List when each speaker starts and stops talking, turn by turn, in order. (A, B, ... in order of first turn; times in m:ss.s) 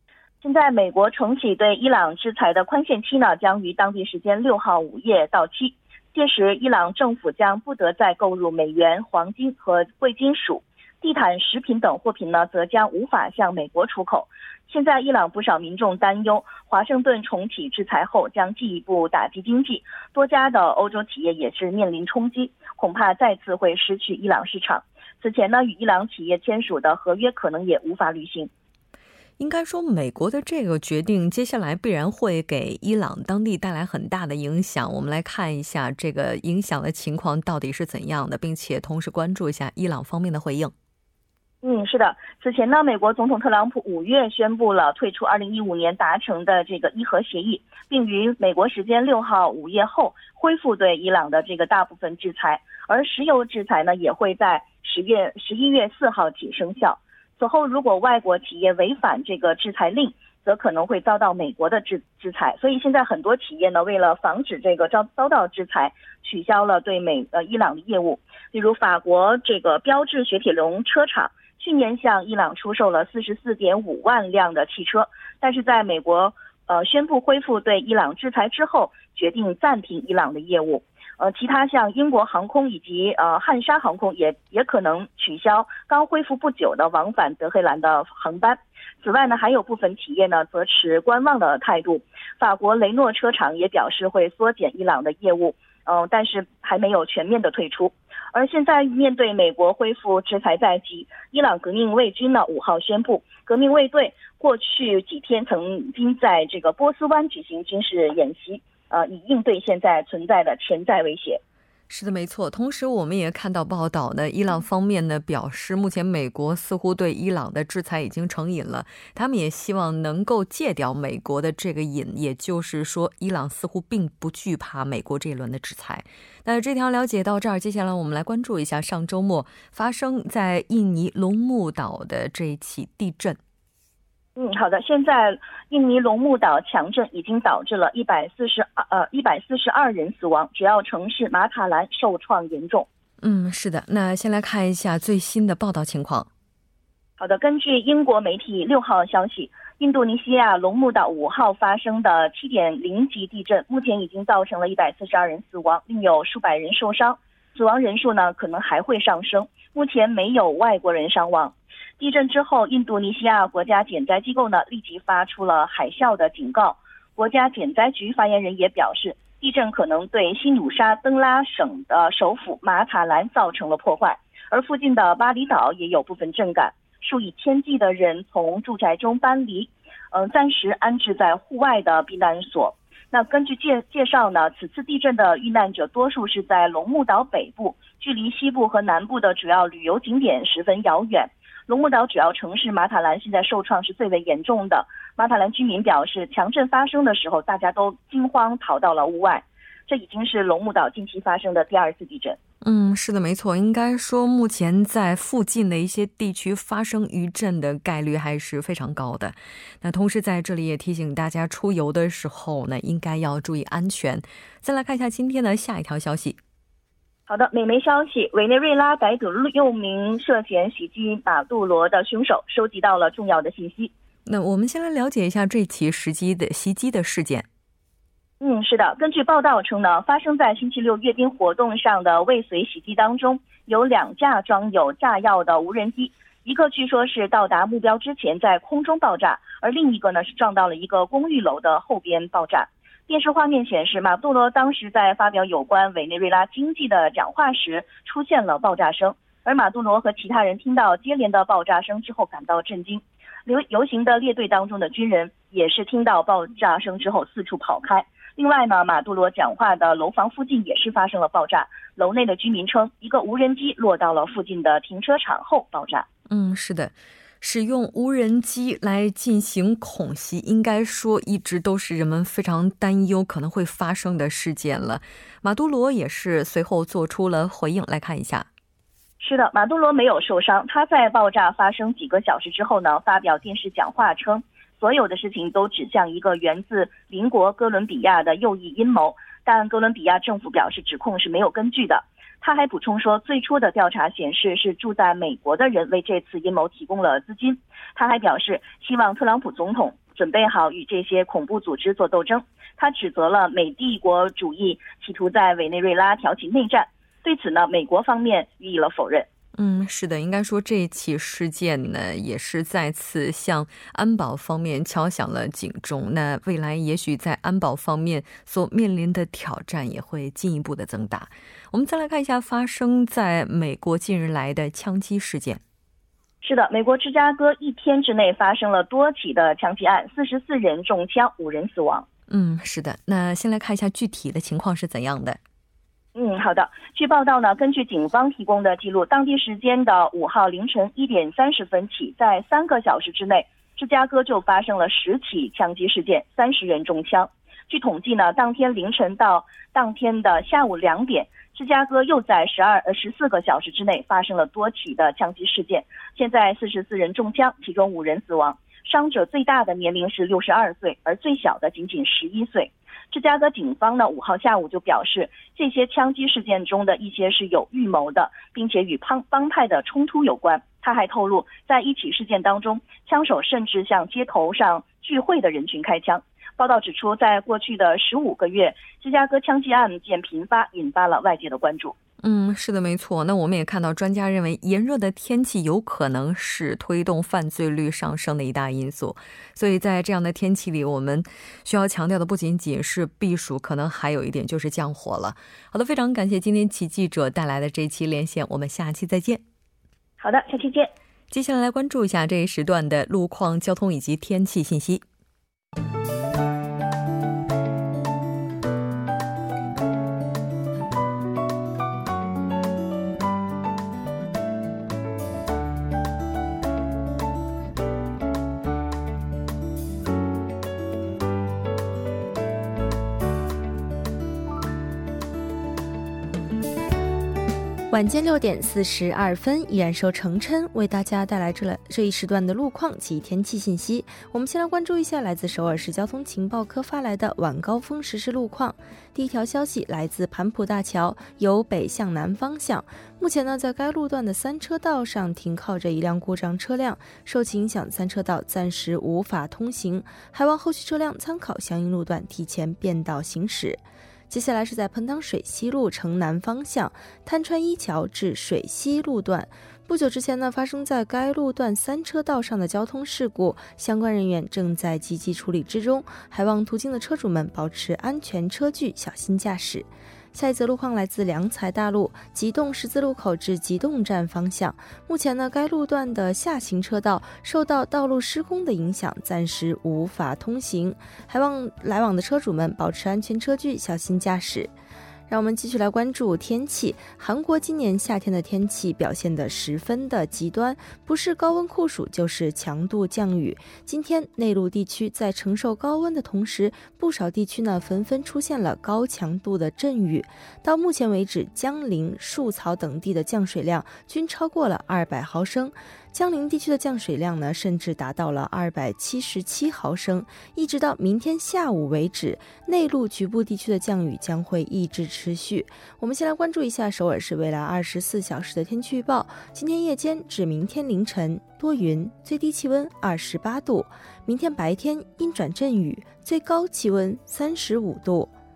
0:00.4-0:28.5 A
0:29.4-0:40.7 B
0:41.6-1:51.4 A
1:51.9-2:13.4 B
2:14.4-2:22.9 A
2:23.2-2:26.3 B
2:27.2-3:22.4 A
3:22.6-3:36.4 B
3:37.3-3:43.9 A
3:44.3-3:47.5 B
3:48.4-4:26.1 A
4:26.3-4:38.5 B
4:39.2-5:09.3 A
5:09.6-5:25.6 B
5:26.4-5:32.1 A
5:32.3-5:35.4 B
5:36.2-6:22.0 A
6:22.2-6:39.4 B
6:40.2-6:40.9 A
6:41.3-6:45.0 B
7:07.9-8:04.7 C
8:05.3-8:48.4 C